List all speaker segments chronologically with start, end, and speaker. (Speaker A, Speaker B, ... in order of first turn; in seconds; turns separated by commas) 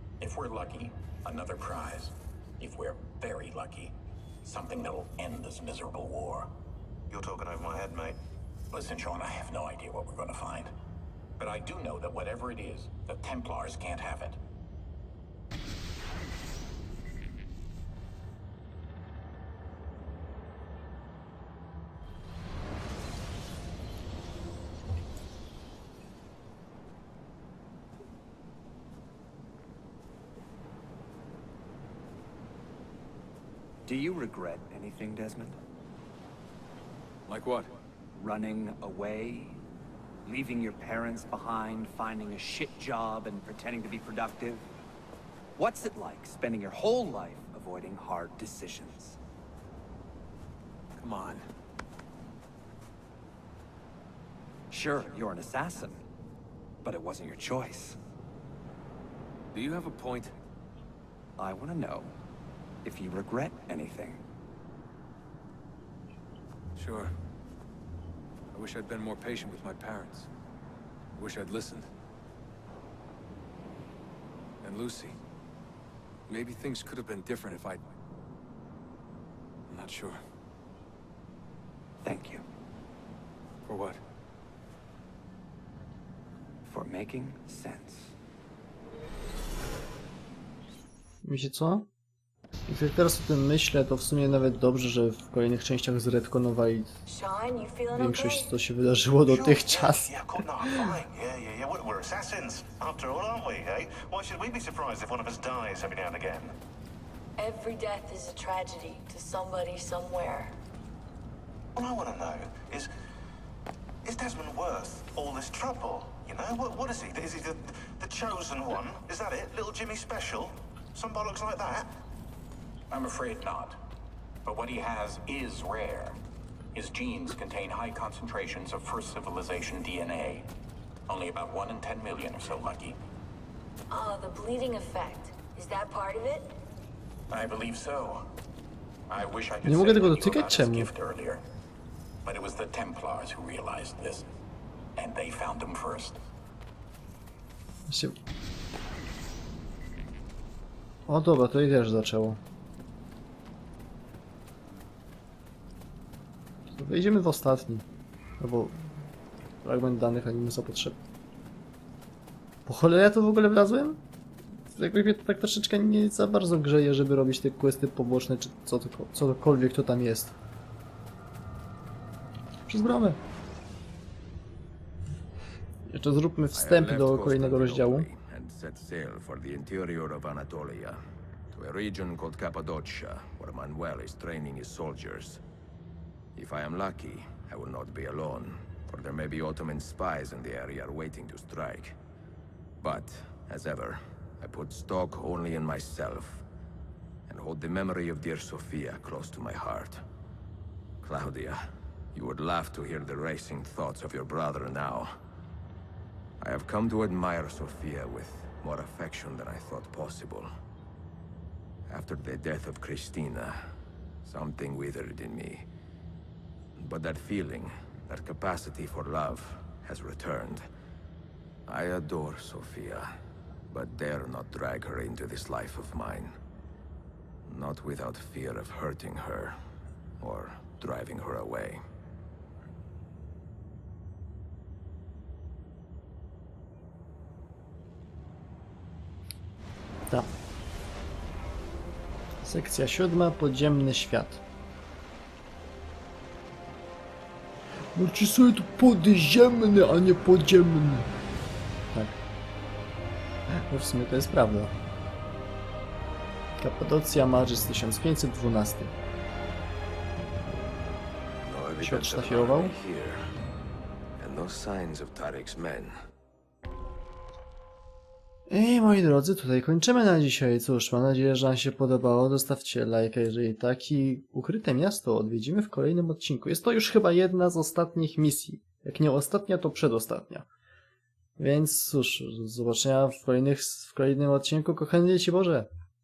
Speaker A: 0.2-6.5, Speaker B: 7.1-8.2, Speaker A: 8.7-10.7, Speaker A: 11.4-14.4, Speaker C: 33.8-35.6, Speaker D: 37.3-37.7, Speaker C: 38.1-39.6, Speaker C: 40.2-44.6, Speaker C: 45.6-49.2, Speaker D: 51.0-51.5, Speaker C: 54.7-56.0, Speaker C: 56.8-58.0, Speaker D: 59.5-60.3, Speaker C: 61.4-62.1, Speaker C: 62.8-64.2, Speaker D: 66.8-67.1, Speaker D: 68.5-70.3, Speaker D: 71.2-71.9, Speaker D: 74.6-75.2, Speaker D: 76.3-77.9, Speaker D: 79.7-80.2, Speaker C: 82.0-82.4, Speaker D: 83.6-84.0, Speaker C: 86.6-88.1, Speaker E: 91.2-91.9, Speaker E: 92.7-96.9, Speaker F: 97.0-98.5, Speaker E: 97.9-100.1, Speaker B: 99.2-106.5, Speaker F: 107.4-110.5, Speaker B: 111.7-112.9, Speaker B: 114.0-121.9, Speaker A: 122.9-123.8, Speaker A: 124.4-126.2, Speaker A: 126.7-130.5, Speaker A: 131.1-133.0, Speaker F: 133.9-136.6, Speaker A: 137.3-138.3, Speaker A: 139.1-141.4, Speaker E: 139.6-140.9, Speaker A: 142.2-144.2, Speaker A: 144.9-146.2, Speaker E: 147.9-148.1, Speaker E: 151.1-152.4, Speaker E: 156.8-157.8, Speaker E: 158.4-158.8, Speaker E: 159.6-161.0, Speaker E: 162.7-164.0, Speaker E: 164.7-170.3, Speaker E: 172.7-173.2, Speaker E: 175.9-178.1, Speaker G: 176.5-181.0, Speaker G: 181.5-185.4, Speaker G: 186.3-192.0, Speaker G: 192.8-196.4, Speaker G: 197.3-200.0, Speaker G: 201.0-201.6, Speaker G: 202.1-205.1, Speaker G: 206.4-210.5, Speaker G: 211.9-213.6, Speaker G: 214.2-215.7, Speaker G: 216.8-220.6, Speaker G: 221.7-223.1, Speaker G: 223.7-226.3, Speaker G: 227.4-229.6, Speaker G: 230.2-231.8, Speaker E: 242.4-244.4, Speaker E: 247.9-251.1, Speaker E: 253.7-254.7, Speaker E: 256.6-258.9, Speaker G: 261.4-263.2, Speaker E: 261.8-262.7, Speaker G: 264.2-265.9, Speaker E: 268.5-280.4, Speaker E: 281.4-285.7